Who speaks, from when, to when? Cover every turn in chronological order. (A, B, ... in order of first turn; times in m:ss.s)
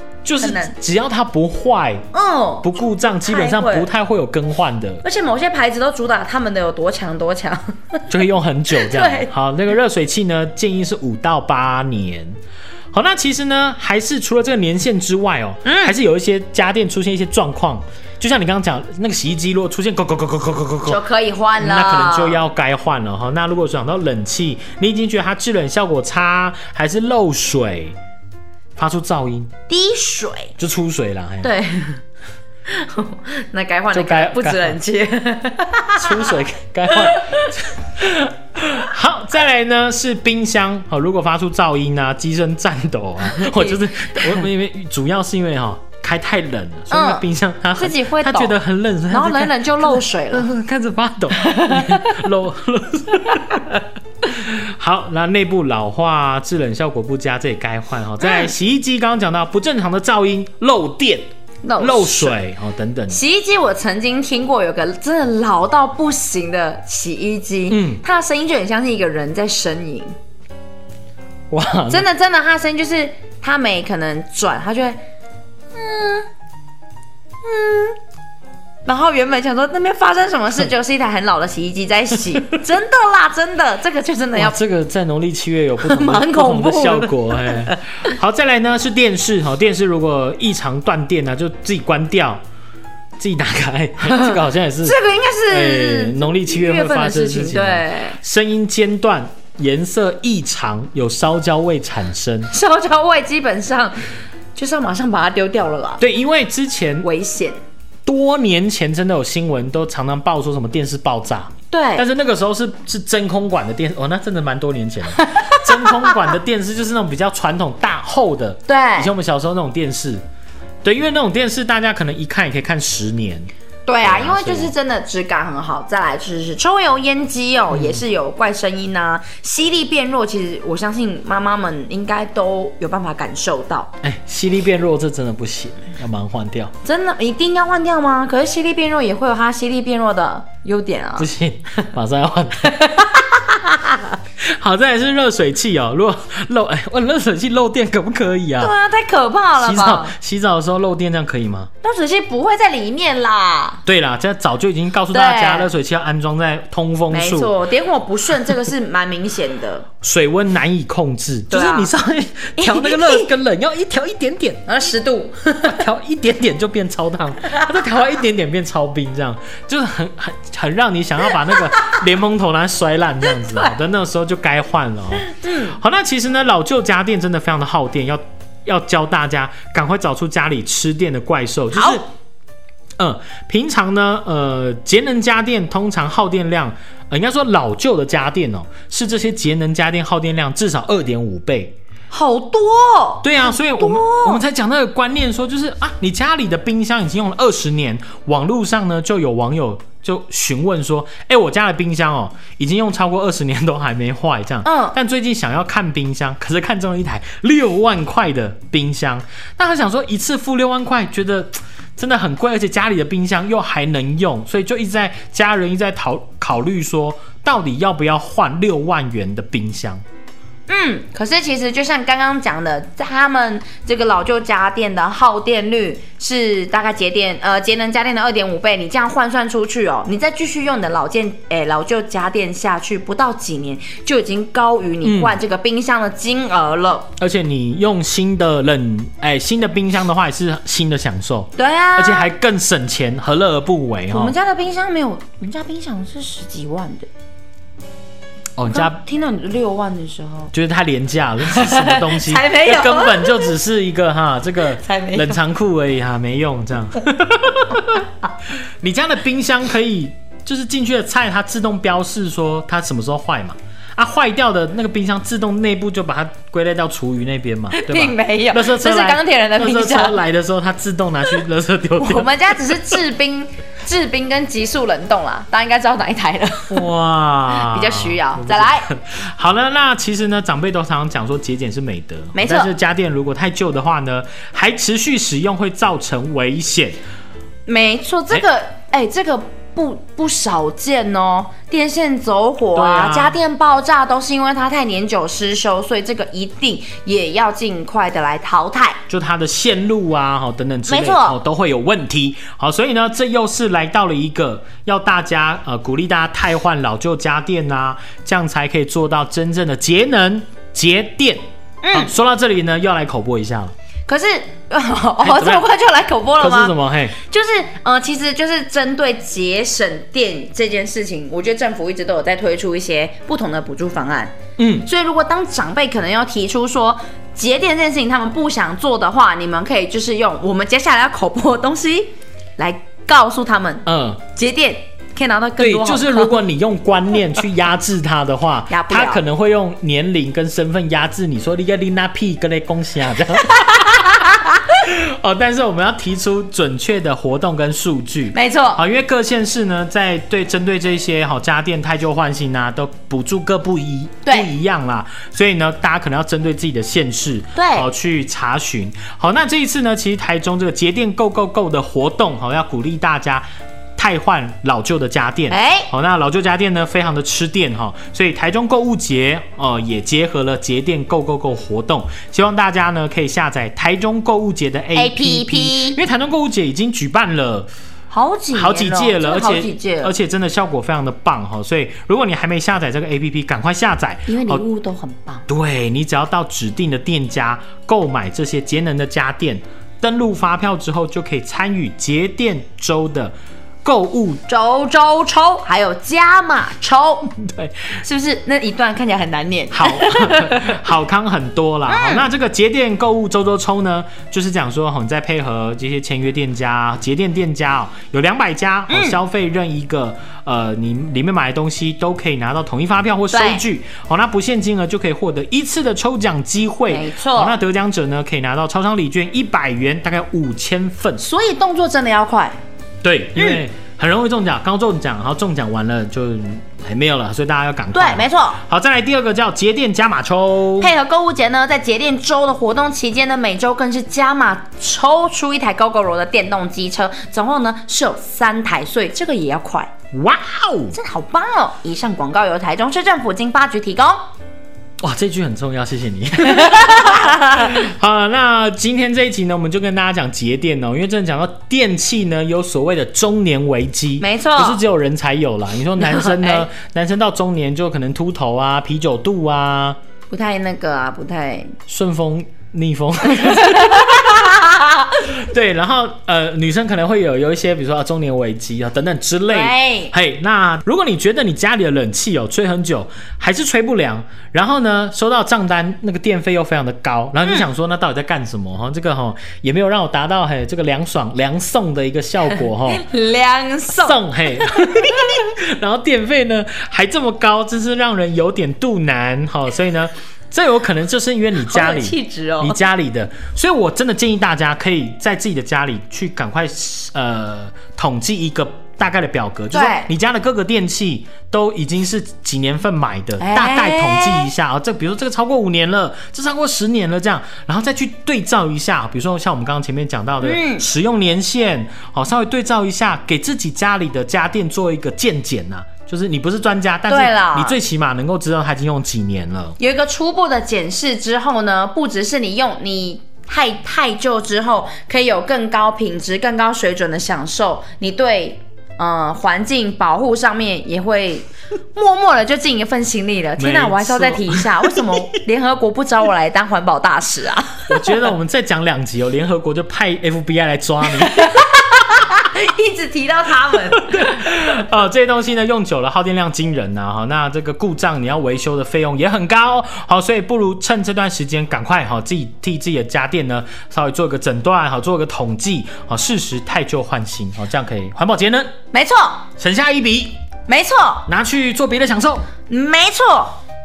0:00.2-0:02.0 A
0:00.4-0:00.7 B
0:02.1-0:02.7 B
0:02.6-0:05.0 A
0:03.2-0:03.9 B
0:05.0-0:08.1 B
0:08.1-0:12.4 A
0:08.7-0:09.3 B
0:12.9-0:21.0 A
0:15.6-0:16.0 B
0:20.8-0:22.4 B
0:21.6-0:28.0 A
0:28.8-0:29.5 A
0:29.7-0:30.5 B
0:30.6-0:31.5 A
0:31.4-0:32.0 B
0:32.7-0:36.4 B
0:33.9-0:34.8 A
0:36.0-1:01.3 A
0:36.9-0:37.5 B
0:43.3-0:44.5 B
0:46.9-0:47.2 B
0:47.8-0:48.6 B
0:49.1-0:50.5 B
0:51.4-0:52.1 B
0:58.2-0:58.5 B
1:01.6-1:02.4 B
1:01.8-1:03.2 A
1:03.1-1:10.1 B
1:07.7-1:08.0 A
1:11.5-1:12.1 A
1:11.9-1:15.0 B
1:15.7-1:16.3 B
1:17.4-1:18.0 B
1:18.8-1:24.6 B
1:24.4-1:32.4 A
1:25.8-1:28.1 B
1:33.2-1:35.0 A
1:34.8-1:38.2 B
1:35.5-1:42.5 A
1:42.5-1:44.0 B
1:44.6-1:46.0 B
1:46.0-1:47.1 A
1:47.0-1:47.6 B
1:48.1-2:00.2 A
1:51.7-1:52.1 B
1:55.2-1:56.3 B
1:58.7-1:59.1 B
2:00.8-2:03.5 A
2:03.9-2:13.9 B
2:04.0-2:04.7 A
2:07.7-2:08.0 A
2:14.0-2:16.7 A
2:16.8-2:21.3 B
2:21.2-2:22.7 A
2:22.6-2:24.2 B
2:24.4-2:28.7 A
2:28.6-2:30.1 B
2:29.6-2:31.7 A
2:31.8-2:33.8 B
2:33.9-2:37.5 A
2:35.1-2:35.7 B
2:37.1-2:39.9 B
2:40.0-2:44.7 A
2:41.5-2:41.9 B
2:42.6-2:43.3 B
2:44.7-2:45.8 B
2:45.6-3:02.0 A
2:53.5-2:53.7 B
2:55.3-2:55.8 B
3:01.7-3:02.0 B
3:03.0-3:11.8 A
3:12.1-3:14.4 B
3:13.2-3:40.0 A
3:24.6-3:25.0 B
3:40.7-3:57.1 B
3:55.0-3:55.4 A
3:57.2-4:04.3 A
4:01.6-4:02.3 B
4:04.1-4:07.1 B
4:08.6-4:09.0 A
4:08.7-4:10.5 B
4:10.5-4:18.1 A
4:11.5-4:13.5 B
4:14.8-4:15.4 B
4:18.8-4:33.0 A
4:27.7-4:30.2 B
4:32.0-4:36.8 B
4:36.7-4:47.0 A
4:37.5-4:38.9 B
4:42.3-4:42.7 B
4:47.7-4:59.0 B
4:52.8-4:53.4 A
4:59.1-5:13.7 A
5:00.9-5:01.4 B
5:11.8-5:12.1 B
5:14.1-5:36.4 B
5:15.2-5:15.7 A
5:16.4-5:17.2 A
5:24.6-5:24.9 A
5:33.9-5:34.2 A
5:35.6-6:03.4 A
5:38.7-5:39.2 B
5:48.3-5:48.8 B
5:54.3-5:54.5 B
5:57.6-5:57.9 B
6:04.0-6:17.7 A
6:05.5-6:05.9 B
6:14.9-6:16.0 B
6:18.1-6:20.2 B
6:18.5-6:24.6 A
6:24.3-6:25.5 B
6:25.5-6:34.4 A
6:34.5-6:37.4 B
6:37.5-6:38.0 A
6:38.0-6:40.8 B
6:39.7-7:01.3 A
6:41.9-6:42.3 B
6:48.9-6:49.2 B
6:53.3-6:53.6 B
6:56.9-6:57.6 B
7:01.2-7:02.6 B
7:03.0-7:10.9 A
7:03.4-7:03.6 B
7:07.9-7:08.6 B
7:10.8-7:19.9 B
7:20.1-7:21.0 A
7:20.9-7:24.3 B
7:25.0-7:40.0 A
7:26.5-7:27.7 B
7:34.2-7:34.8 B
7:36.0-7:36.7 B
7:40.3-7:41.7 B
7:41.9-7:44.5 A
7:43.4-7:45.1 B
7:45.2-8:03.0 A
7:49.5-7:50.1 B
8:02.9-8:04.2 B
8:04.0-8:39.8 A
8:11.7-8:12.8 B
8:19.7-8:20.1 B
8:23.4-8:24.5 B
8:30.4-8:30.8 B
8:37.1-8:37.8 B
8:39.8-8:57.9 B
8:53.6-8:55.2 A
8:57.9-9:01.5 A
9:01.2-9:04.3 B
9:04.0-9:18.7 A
9:18.9-9:19.4 B
9:19.6-9:20.4 A
9:20.7-9:21.3 B
9:21.3-9:22.5 A
9:22.7-9:23.6 B